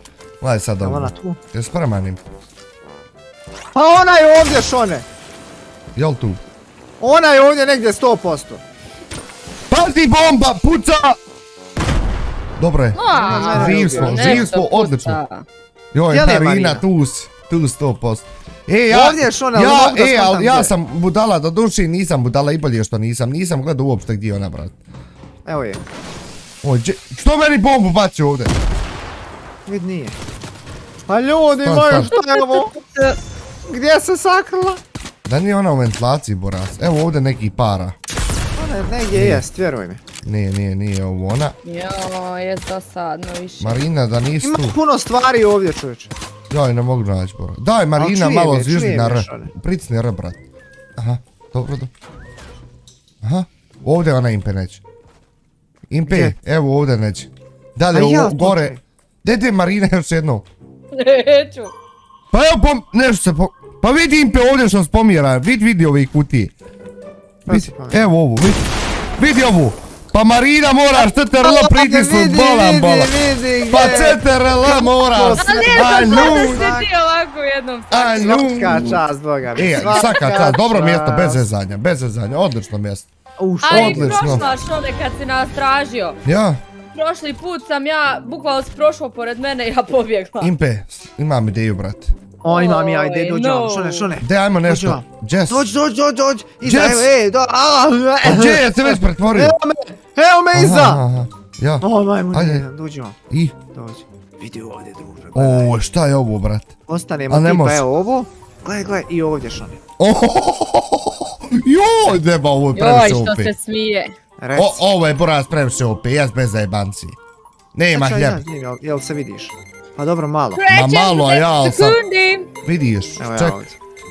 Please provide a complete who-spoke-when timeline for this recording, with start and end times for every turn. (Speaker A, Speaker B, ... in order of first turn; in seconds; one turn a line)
Speaker A: 0.4-2.2
Speaker B: 0.8-1.4
Speaker B: 3.7-5.0
Speaker A: 6.0-6.4
Speaker B: 7.0-8.6
Speaker A: 9.7-11.2
Speaker A: 12.6-15.2
Speaker C: 12.9-15.4
Speaker B: 13.1-14.5
Speaker A: 15.9-24.8
Speaker B: 16.1-16.8
Speaker B: 18.9-20.7
Speaker B: 25.4-25.8
Speaker A: 26.6-28.5
Speaker B: 29.6-30.2
Speaker B: 31.1-32.7
Speaker A: 31.6-32.1
Speaker C: 32.1-33.2
Speaker B: 33.6-34.8
Speaker A: 35.2-37.9
Speaker B: 38.5-40.0
Speaker A: 39.1-39.4
Speaker A: 40.2-41.5
Speaker C: 41.6-43.8
Speaker A: 43.6-44.7
Speaker B: 44.4-46.1
Speaker A: 46.5-50.4
Speaker B: 48.0-49.5
Speaker A: 51.0-51.9
Speaker A: 53.2-54.8
Speaker A: 55.9-60.5
Speaker B: 56.0-56.4
Speaker B: 57.9-58.8
Speaker C: 60.9-61.7
Speaker A: 62.3-66.5
Speaker B: 67.5-68.1
Speaker A: 67.5-73.1
Speaker B: 71.4-76.9
Speaker A: 73.7-76.7
Speaker C: 75.3-78.5
Speaker A: 77.9-79.0
Speaker B: 78.0-81.4
Speaker A: 79.5-83.1
Speaker C: 79.7-80.2
Speaker B: 83.4-84.5
Speaker C: 83.6-86.2
Speaker A: 83.7-84.5
Speaker A: 86.2-86.6
Speaker C: 86.9-90.5
Speaker A: 90.4-92.1
Speaker B: 92.4-101.0
Speaker C: 92.5-94.1
Speaker A: 94.2-95.7
Speaker A: 96.6-97.1
Speaker A: 98.2-99.5
Speaker A: 100.5-102.6
Speaker B: 101.8-103.2
Speaker A: 103.3-103.5
Speaker B: 103.7-105.8
Speaker A: 105.3-106.7
Speaker B: 106.9-109.8
Speaker A: 107.3-107.8
Speaker A: 110.0-113.5
Speaker C: 112.7-114.1
Speaker B: 114.4-114.8
Speaker A: 114.5-117.2
Speaker A: 117.7-118.4
Speaker B: 117.9-120.6
Speaker C: 120.5-122.5
Speaker A: 120.7-122.0
Speaker A: 122.6-123.6
Speaker B: 123.2-123.8